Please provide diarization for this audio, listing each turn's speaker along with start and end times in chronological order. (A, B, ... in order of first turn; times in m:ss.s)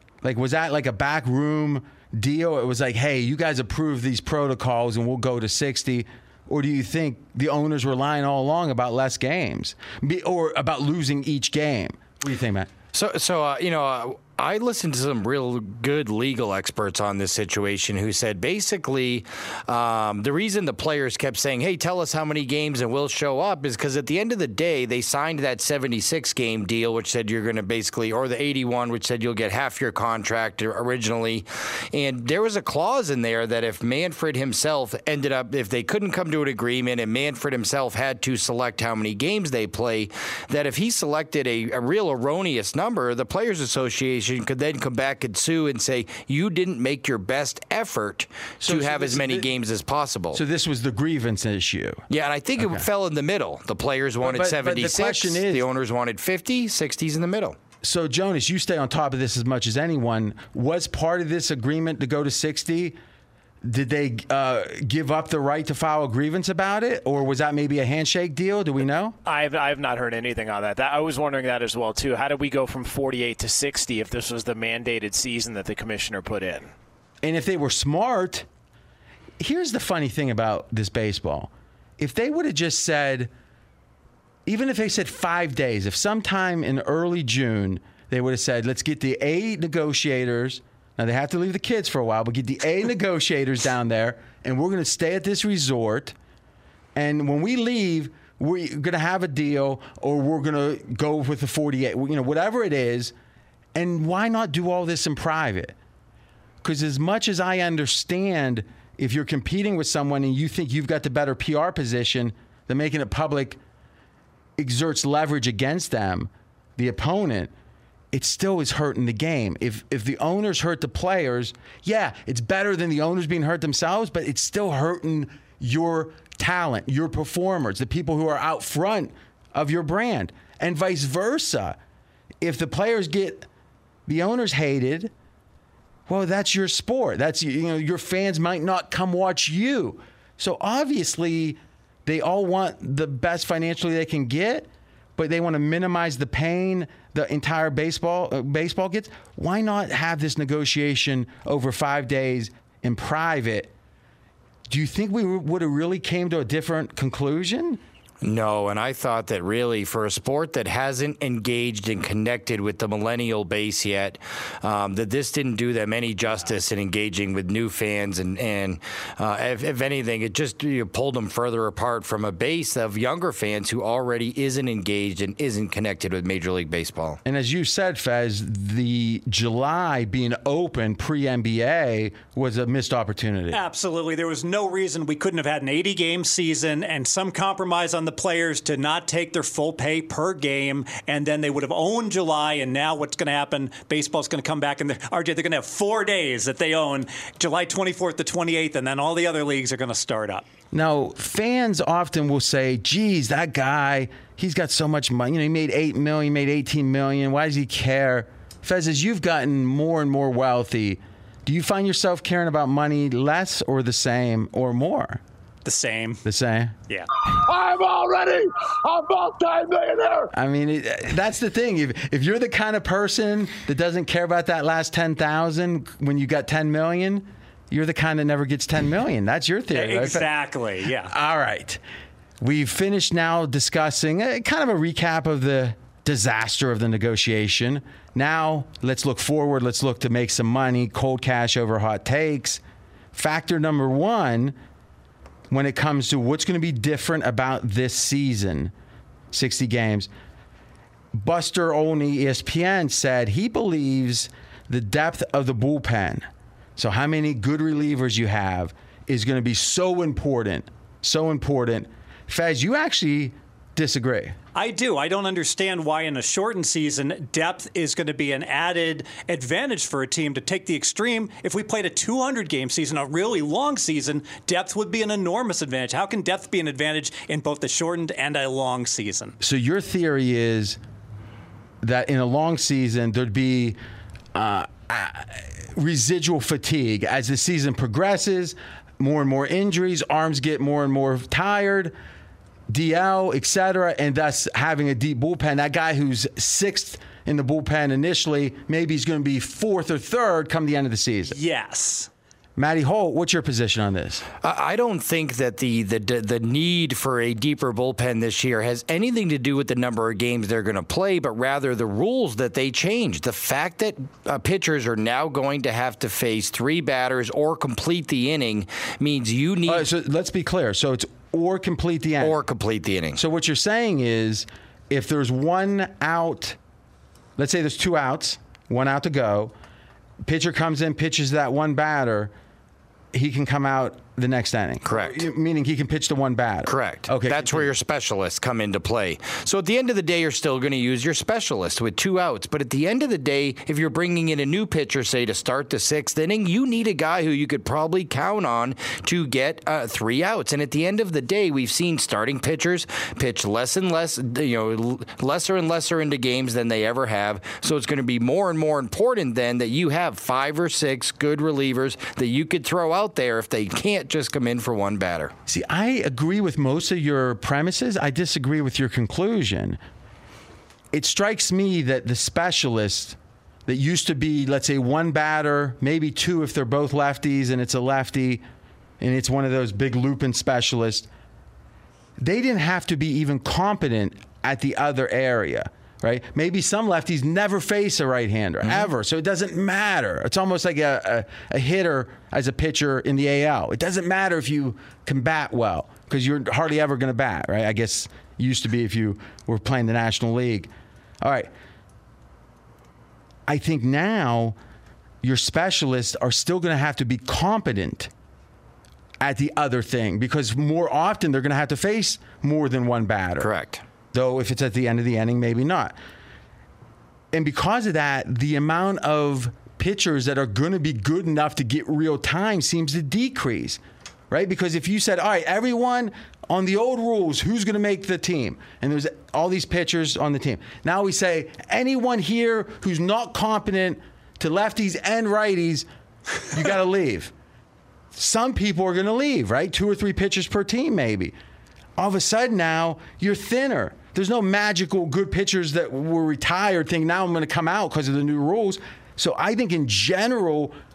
0:00.2-0:12.7 A
0:12.9-0:50.4 B
0:48.6-0:49.5 A
0:50.3-0:52.0 A
0:52.1-0:57.6 B
0:52.6-0:52.9 A
0:54.2-0:55.7 A
0:57.8-1:03.0 A
1:03.6-1:09.2 A
1:09.2-1:16.7 C
1:17.2-1:18.5 A
1:19.4-1:23.3 A
1:24.5-1:36.2 A
1:37.0-1:43.1 A
1:43.8-1:45.8 A
1:46.6-1:53.6 A
1:54.6-1:57.5 A
1:58.1-2:11.8 A
2:12.4-2:13.5 A
2:14.1-2:15.1 A
2:16.1-2:33.7 A
2:34.7-2:37.8 A
2:38.2-2:57.2 B
2:57.2-3:03.6 A
3:03.5-3:20.4 D
3:20.7-3:35.2 A
3:35.6-3:36.2 D
3:36.2-3:36.8 A
3:37.2-3:40.3 E
3:40.3-3:50.3 A
3:49.7-3:51.1 D
3:51.0-3:51.8 A
3:52.4-4:02.6 A
4:03.1-4:04.6 A
4:05.5-4:08.7 A
4:09.3-4:10.1 A
4:11.1-4:24.4 A
4:24.6-4:39.4 D
4:39.4-4:40.8 A
4:41.8-4:43.8 A
4:44.4-4:51.9 A
4:52.7-5:01.4 A
5:01.3-5:02.1 D
5:02.6-5:04.3 A
5:04.4-5:19.8 B
5:19.6-5:22.4 A
5:22.2-5:23.2 B
5:23.2-5:26.6 A
5:27.4-5:29.5 A
5:30.2-5:32.3 A
5:33.1-5:37.7 A
5:34.8-5:35.2 B
5:36.7-6:05.3 B
6:05.5-6:09.8 A
6:10.9-6:18.4 A
6:19.0-6:21.1 A
6:22.2-6:40.7 A
6:28.6-6:28.9 B
6:41.2-6:41.5 A
6:43.5-6:44.6 A
6:45.2-6:48.1 A
6:49.2-6:53.5 A
6:53.4-6:53.8 B
6:54.1-6:56.0 A
6:57.3-7:15.9 A
7:16.5-7:17.3 A
7:18.1-7:21.3 A
7:22.0-7:30.7 A